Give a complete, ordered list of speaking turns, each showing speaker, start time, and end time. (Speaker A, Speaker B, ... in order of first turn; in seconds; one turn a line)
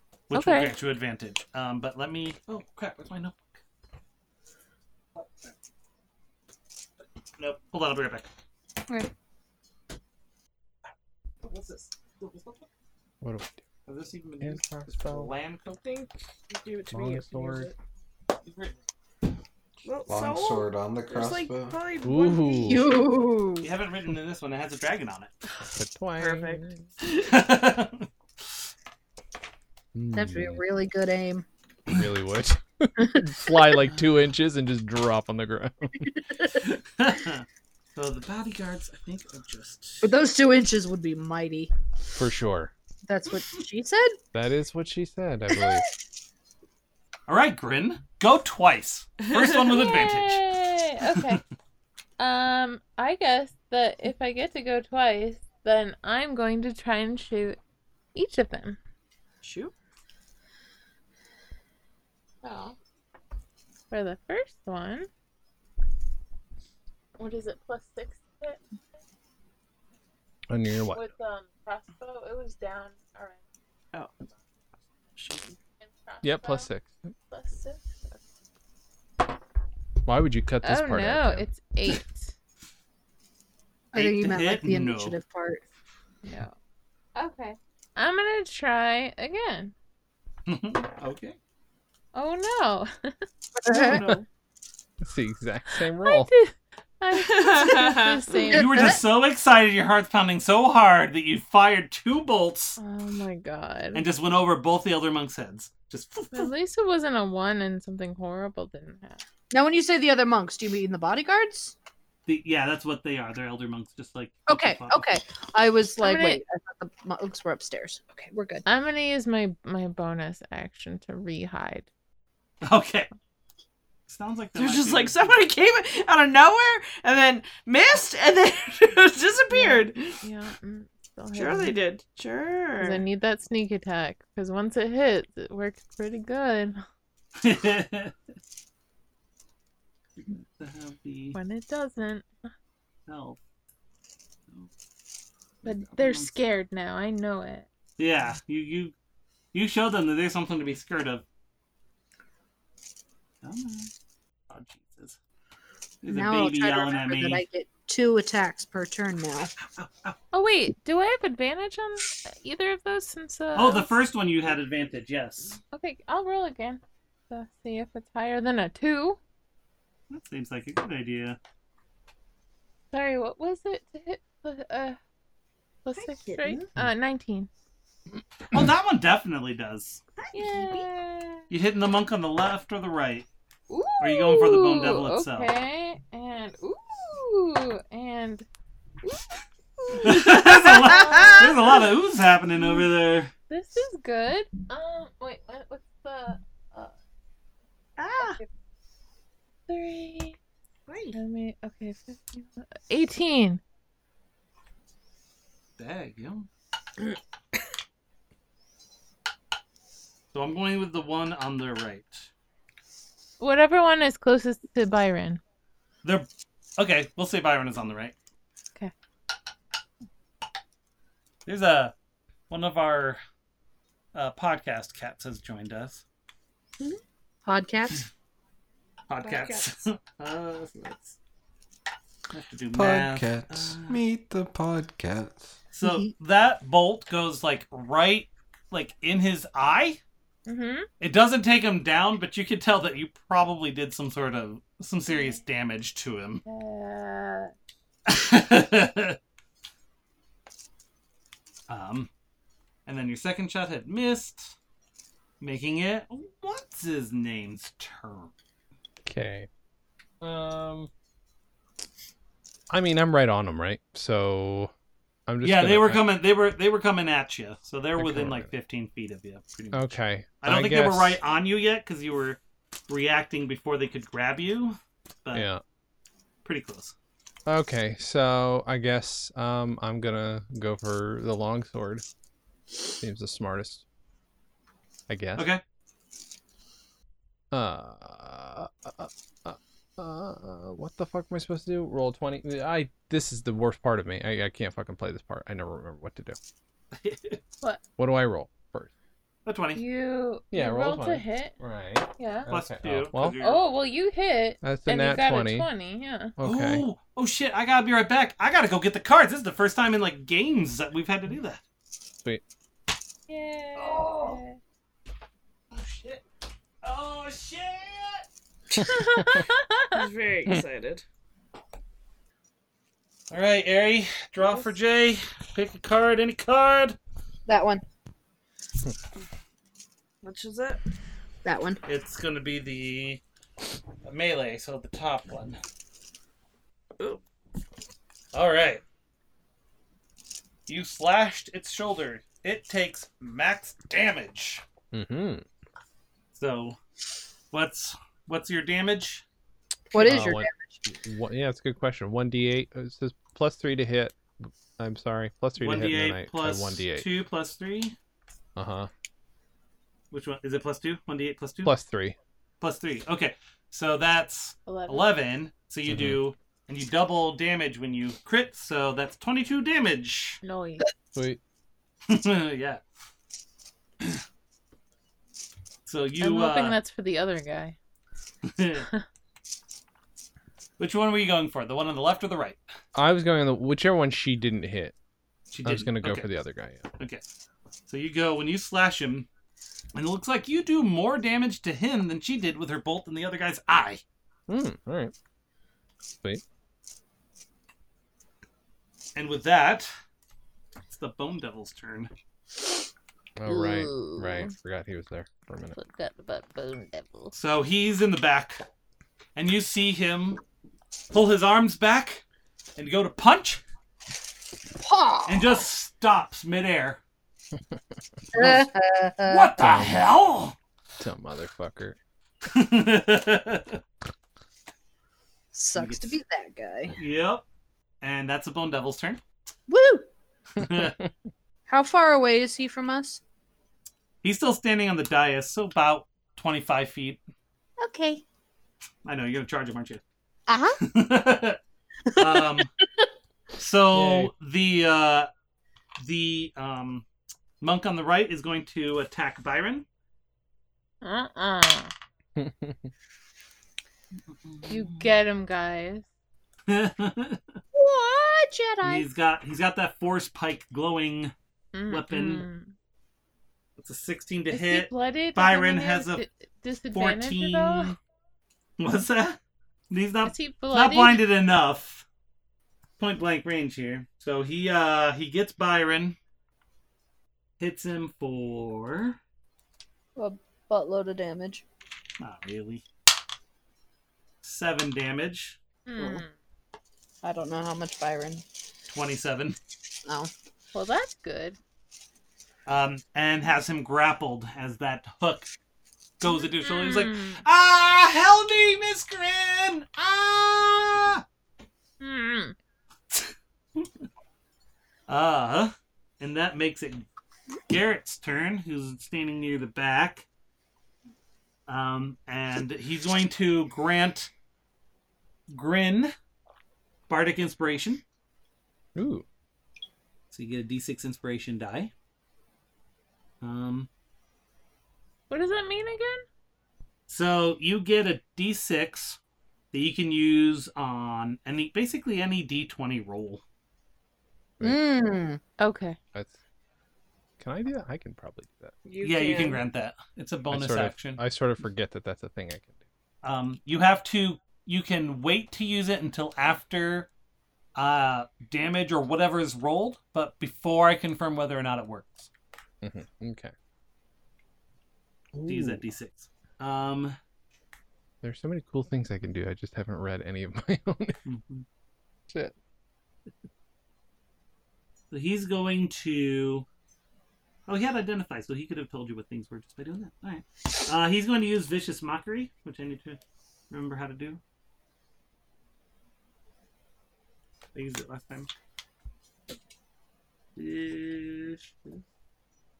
Speaker A: 0.3-3.6
Speaker B: 0.3-0.7
Speaker A: 7.4-8.3
Speaker A: 11.4-12.7
Speaker C: 13.2-13.6
Speaker A: 13.8-15.7
Speaker C: 14.4-15.3
Speaker D: 15.7-17.7
Speaker C: 16.9-17.7
Speaker A: 18.4-18.8
Speaker D: 19.8-23.0
Speaker E: 20.1-21.8
Speaker C: 22.0-23.0
Speaker F: 22.6-23.7
Speaker A: 23.6-25.3
Speaker C: 25.6-26.9
Speaker D: 26.2-26.6
Speaker A: 27.1-28.1
Speaker C: 29.9-30.6
Speaker F: 30.1-31.4
Speaker C: 31.9-36.1
Speaker F: 33.0-33.5
Speaker A: 36.5-40.1
Speaker F: 40.0-41.7
Speaker C: 42.1-42.7
Speaker F: 43.0-44.2
Speaker C: 44.3-45.9
Speaker A: 47.3-50.5
Speaker B: 49.6-51.4
Speaker B: 52.2-57.6
Speaker B: 58.1-58.8
Speaker D: 59.4-59.7
Speaker B: 62.4-62.7
Speaker B: 63.9-65.1
Speaker B: 67.2-68.6
Speaker C: 70.5-71.0
Speaker B: 70.9-73.4
Speaker D: 75.2-75.6
Speaker B: 75.8-76.7
Speaker C: 76.2-76.9
Speaker B: 77.3-78.2
Speaker C: 80.0-81.5
Speaker B: 80.6-82.3
Speaker F: 83.9-85.6
Speaker A: 83.9-85.2
Speaker B: 86.2-86.5
Speaker B: 87.1-89.7
Speaker A: 90.5-91.4
Speaker B: 92.1-93.1
Speaker F: 93.5-94.0
Speaker A: 93.7-94.1
Speaker D: 93.8-94.2
Speaker C: 95.0-96.3
Speaker B: 96.0-99.0
Speaker D: 97.1-98.4
Speaker F: 98.5-99.0
Speaker A: 98.5-102.8
Speaker B: 102.8-104.0
Speaker A: 103.9-106.5
Speaker B: 106.3-109.2
Speaker F: 109.5-111.7
Speaker A: 112.3-115.1
Speaker F: 114.5-118.6
Speaker B: 116.0-116.4
Speaker B: 118.7-121.9
Speaker A: 122.6-123.1
Speaker A: 124.1-125.4
Speaker D: 124.5-130.2
Speaker B: 129.5-131.8
Speaker D: 131.3-133.0
Speaker B: 132.8-136.8
Speaker A: 137.4-138.1
Speaker A: 140.2-141.4
Speaker B: 141.3-142.3
Speaker A: 143.1-143.4
Speaker A: 145.6-146.3
Speaker B: 145.6-147.7
Speaker A: 148.0-148.9
Speaker A: 149.5-151.2
Speaker A: 153.4-153.9
Speaker A: 154.5-155.2
Speaker A: 156.0-157.4
Speaker F: 156.1-159.5
Speaker A: 159.7-160.1
Speaker B: 160.3-163.9
Speaker A: 163.5-165.6
Speaker B: 165.7-169.2
Speaker A: 170.1-171.4
Speaker B: 172.9-175.0
Speaker B: 175.8-177.5
Speaker D: 176.0-176.7
Speaker A: 178.5-180.0
Speaker D: 180.2-180.9
Speaker B: 180.3-181.4
Speaker A: 181.5-183.3
Speaker B: 183.7-188.4
Speaker A: 184.0-185.5
Speaker B: 189.0-191.9
Speaker A: 189.9-193.3
Speaker B: 193.5-196.9
Speaker D: 198.0-198.4
Speaker B: 198.2-198.5
Speaker B: 199.7-200.4
Speaker D: 200.9-201.2
Speaker B: 201.1-203.6
Speaker A: 205.8-206.5
Speaker A: 210.3-212.3
Speaker B: 213.4-215.4
Speaker A: 216.0-218.1
Speaker A: 221.4-221.9
Speaker A: 222.5-223.2
Speaker A: 224.1-226.0
Speaker F: 227.4-228.1
Speaker A: 229.1-231.2
Speaker D: 229.2-229.7
Speaker A: 232.3-234.0
Speaker E: 232.7-235.5
Speaker A: 235.7-240.0
Speaker B: 240.4-240.9
Speaker A: 241.0-246.4
Speaker B: 245.1-245.4
Speaker B: 246.4-247.5
Speaker A: 248.1-249.2
Speaker A: 251.7-252.1
Speaker A: 252.8-254.5
Speaker A: 255.4-258.3
Speaker C: 259.1-259.5
Speaker C: 260.2-260.9
Speaker C: 262.7-264.7
Speaker C: 265.3-266.1
Speaker A: 265.4-275.5
Speaker C: 268.0-268.5
Speaker C: 269.7-271.2
Speaker C: 275.3-275.6
Speaker A: 276.4-276.9
Speaker C: 277.4-282.0
Speaker C: 283.0-283.8
Speaker C: 285.1-285.5
Speaker A: 285.4-285.6
Speaker C: 287.5-296.4
Speaker A: 296.9-297.4
Speaker C: 298.0-298.9
Speaker A: 299.4-299.8
Speaker B: 299.7-301.5
Speaker C: 300.5-303.3
Speaker B: 302.1-302.5
Speaker A: 302.5-303.6
Speaker B: 303.4-306.3
Speaker C: 304.6-305.7
Speaker C: 306.4-306.8
Speaker A: 306.4-311.6
Speaker B: 313.3-314.6
Speaker A: 313.7-314.4
Speaker A: 315.7-316.2
Speaker A: 316.8-318.3
Speaker C: 318.8-319.4
Speaker B: 318.8-320.0
Speaker D: 319.9-321.0
Speaker A: 323.3-327.0
Speaker F: 327.5-327.8
Speaker D: 330.2-330.8
Speaker F: 331.4-331.8
Speaker A: 331.8-333.2
Speaker A: 334.0-335.6
Speaker A: 338.3-338.8
Speaker A: 340.7-344.6
Speaker C: 344.9-345.4
Speaker A: 346.3-346.8
Speaker A: 347.5-349.2
Speaker F: 349.9-350.8
Speaker C: 349.9-357.1
Speaker A: 355.6-357.9
Speaker C: 358.6-358.9
Speaker A: 360.1-361.7
Speaker C: 361.6-362.2
Speaker A: 362.6-370.4
Speaker B: 364.7-365.1
Speaker C: 365.9-366.2
Speaker B: 370.4-370.9
Speaker C: 371.1-371.4
Speaker A: 372.1-372.8
Speaker A: 375.8-376.8
Speaker B: 376.2-377.8
Speaker A: 378.4-378.9
Speaker A: 380.8-382.6
Speaker C: 382.9-384.9
Speaker A: 385.5-386.3
Speaker C: 385.6-386.9
Speaker A: 387.9-389.3
Speaker A: 389.9-394.0
Speaker C: 394.5-395.1
Speaker A: 399.1-399.9
Speaker A: 400.9-402.1
Speaker C: 403.4-405.8
Speaker B: 403.5-404.5
Speaker B: 405.7-407.3
Speaker A: 407.3-408.6
Speaker A: 409.4-410.4
Speaker A: 411.1-412.2
Speaker A: 412.8-413.6
Speaker F: 414.8-415.6
Speaker A: 415.2-417.0
Speaker F: 418.3-419.5
Speaker A: 418.3-418.6
Speaker A: 419.3-420.6
Speaker C: 419.6-420.0
Speaker C: 421.0-422.0
Speaker A: 422.5-423.8
Speaker F: 425.5-426.9
Speaker A: 425.8-426.2
Speaker A: 426.9-427.4
Speaker A: 428.0-429.2
Speaker F: 429.7-430.1
Speaker A: 430.6-431.0
Speaker F: 431.7-433.2
Speaker A: 434.2-437.2
Speaker F: 437.8-438.2
Speaker A: 439.0-440.0
Speaker F: 440.5-440.8
Speaker A: 440.8-441.6
Speaker A: 442.1-442.7
Speaker F: 442.2-442.6
Speaker A: 443.6-445.3
Speaker C: 443.9-444.3
Speaker A: 446.0-447.1
Speaker A: 447.6-449.9
Speaker B: 451.0-451.9
Speaker C: 452.4-452.9
Speaker A: 454.4-455.0
Speaker B: 454.7-456.1
Speaker A: 456.7-457.4
Speaker F: 457.7-459.1
Speaker A: 458.8-461.3
Speaker B: 461.7-462.7
Speaker A: 461.9-462.4
Speaker A: 463.8-466.2
Speaker B: 464.5-467.9
Speaker A: 466.9-467.9
Speaker A: 468.8-469.4
Speaker A: 469.9-472.0
Speaker B: 470.2-471.2
Speaker A: 473.0-476.2
Speaker A: 477.6-479.2
Speaker F: 480.1-481.6
Speaker A: 482.2-482.8
Speaker A: 484.4-485.6
Speaker B: 485.9-486.3
Speaker F: 486.0-486.2
Speaker F: 487.2-488.4
Speaker A: 488.9-489.6
Speaker F: 490.1-490.3
Speaker B: 490.7-491.6
Speaker A: 492.6-495.5
Speaker A: 496.2-501.2
Speaker B: 496.3-497.4
Speaker B: 502.0-502.5
Speaker A: 503.1-503.9
Speaker A: 505.1-507.1
Speaker A: 507.7-510.2
Speaker A: 511.7-514.3
Speaker A: 515.5-516.1
Speaker A: 517.1-518.0
Speaker C: 518.9-519.2
Speaker A: 520.3-521.9
Speaker A: 523.4-523.9
Speaker B: 525.3-526.2
Speaker A: 527.1-529.2
Speaker A: 529.7-533.4
Speaker F: 534.6-535.4
Speaker B: 535.6-536.0
Speaker C: 537.4-538.7
Speaker D: 538.8-539.6
Speaker A: 539.0-541.2
Speaker C: 540.5-542.8
Speaker A: 543.2-547.1
Speaker A: 547.8-552.3
Speaker C: 552.8-553.5
Speaker C: 555.4-555.8
Speaker A: 555.5-557.2
Speaker C: 558.2-561.2
Speaker A: 561.2-561.6
Speaker C: 562.3-562.5
Speaker A: 565.1-566.6
Speaker A: 567.7-573.2
Speaker A: 573.7-574.4
Speaker A: 577.7-578.5
Speaker A: 580.5-582.0